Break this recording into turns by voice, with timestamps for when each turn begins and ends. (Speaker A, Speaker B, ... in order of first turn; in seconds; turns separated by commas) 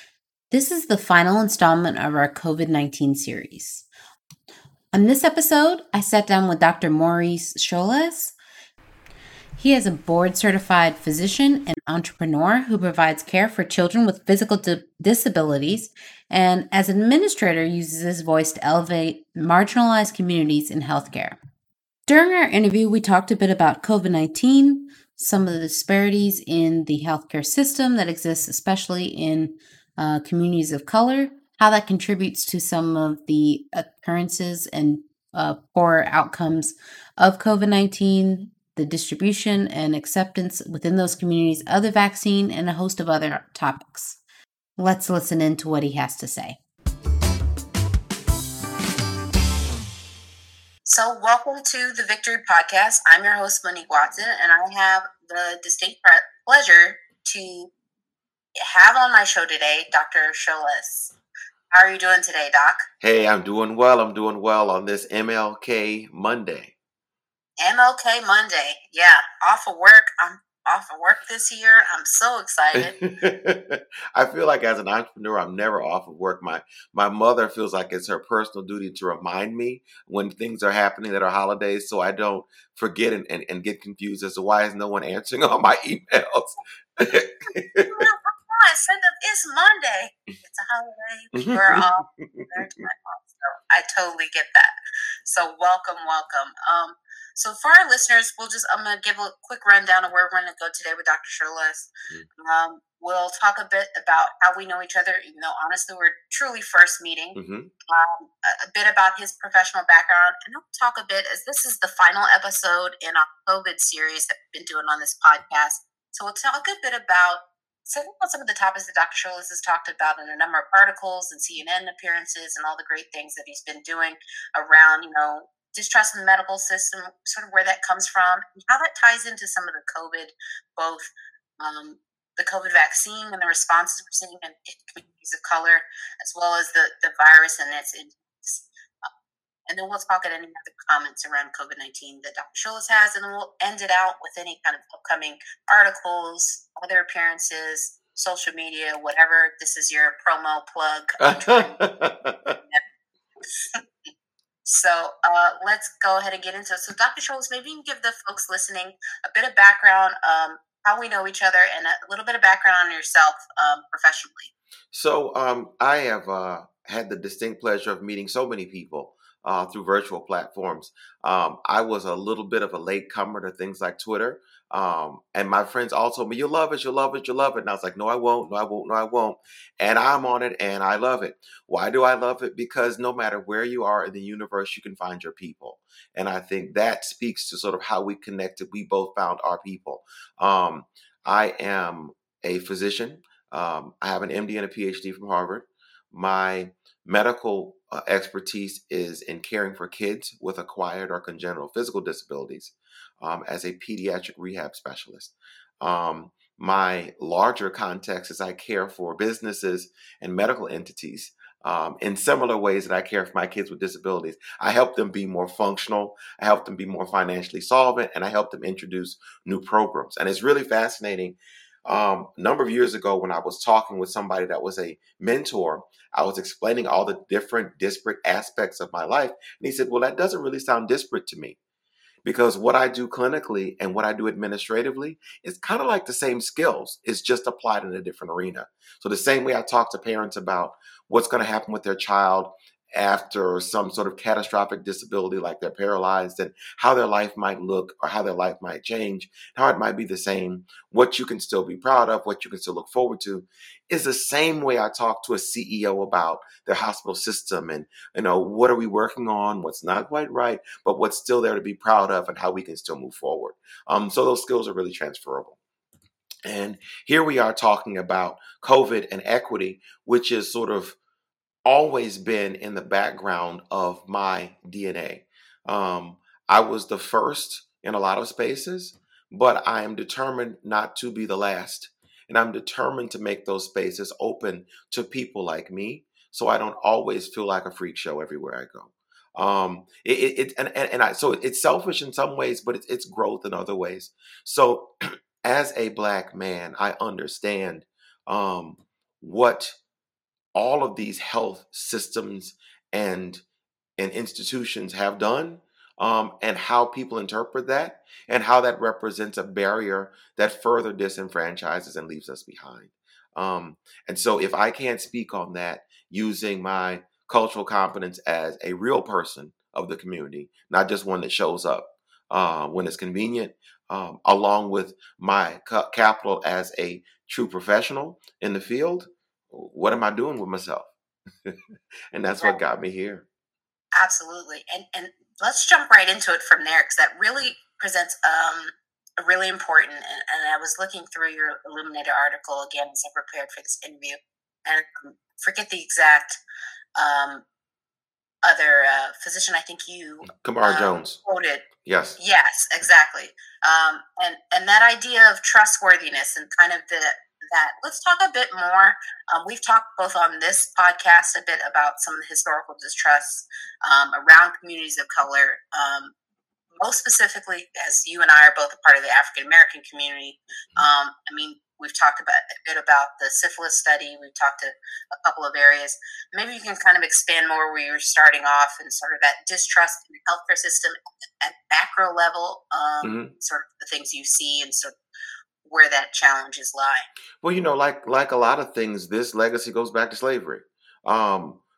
Speaker A: 0.5-3.9, Speaker A: 4.9-8.3, Speaker A: 9.6-21.4, Speaker A: 22.1-44.2, Speaker A: 44.8-46.6, Speaker A: 50.9-57.7, Speaker A: 58.6-61.1, Speaker A: 61.7-62.9, Speaker B: 63.0-66.7, Speaker A: 67.6-73.0, Speaker B: 72.7-88.1, Speaker A: 87.9-94.7, Speaker B: 91.3-92.5, Speaker A: 95.2-107.4, Speaker B: 107.3-107.7, Speaker A: 107.9-139.1, Speaker A: 139.7-151.8, Speaker B: 151.2-152.6, Speaker A: 154.7-164.5, Speaker B: 164.9-231.6, Speaker B: 232.2-265.6, Speaker B: 266.4-271.0, Speaker B: 271.6-299.8, Speaker B: 300.5-303.4, Speaker B: 304.0-330.9, Speaker B: 332.1-333.3, Speaker A: 333.9-346.4, Speaker A: 347.0-347.4, Speaker A: 348.4-351.7, Speaker B: 350.3-351.2, Speaker B: 351.8-352.2, Speaker A: 352.2-366.1, Speaker A: 366.8-384.9, Speaker B: 383.0-383.3, Speaker A: 385.6-387.1, Speaker B: 387.4-391.6